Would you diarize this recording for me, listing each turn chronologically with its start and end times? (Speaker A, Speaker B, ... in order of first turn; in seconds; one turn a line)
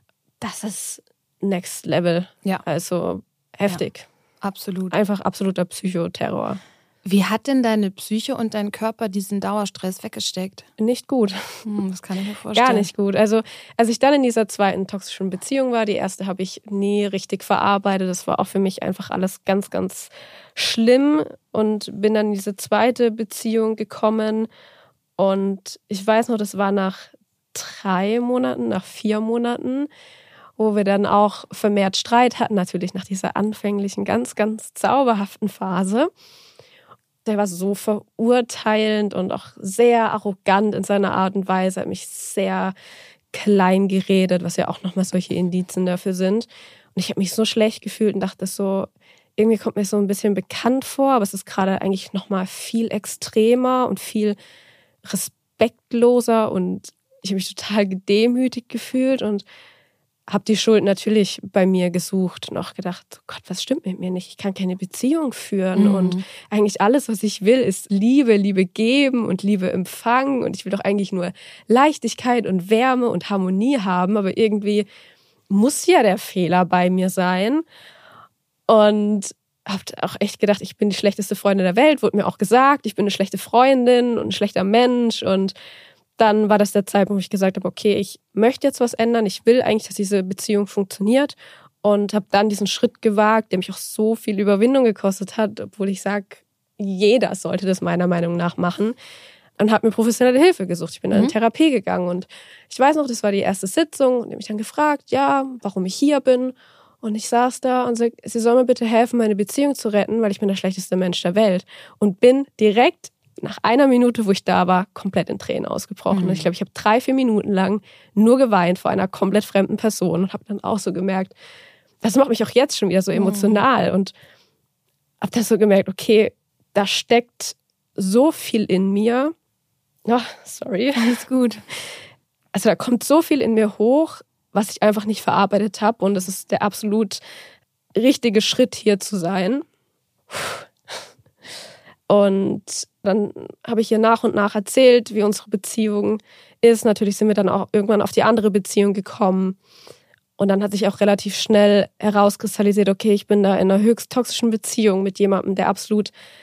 Speaker A: 0.4-4.1
Speaker B: 4.4-5.0
Speaker A: 4.9-6.6
Speaker B: 7.0-10.7
Speaker A: 10.8-11.6
Speaker B: 11.6-12.9
Speaker A: 12.5-24.5
Speaker A: 25.2-29.9
Speaker A: 30.6-36.1
Speaker A: 37.2-42.7
Speaker A: 43.3-54.4
Speaker A: 55.0-59.4
Speaker A: 60.3-74.8
Speaker B: 65.7-66.2
Speaker A: 75.5-77.6
Speaker A: 78.7-85.5
Speaker A: 86.2-99.0
Speaker A: 99.6-121.3
Speaker B: 116.1-116.5
Speaker A: 122.0-124.1
Speaker B: 123.1-123.6
Speaker A: 125.2-129.3
Speaker A: 130.1-131.2
Speaker B: 130.9-131.6
Speaker A: 132.5-137.2
Speaker A: 137.9-139.6
Speaker A: 140.3-140.7
Speaker A: 142.1-149.6
Speaker A: 150.4-156.1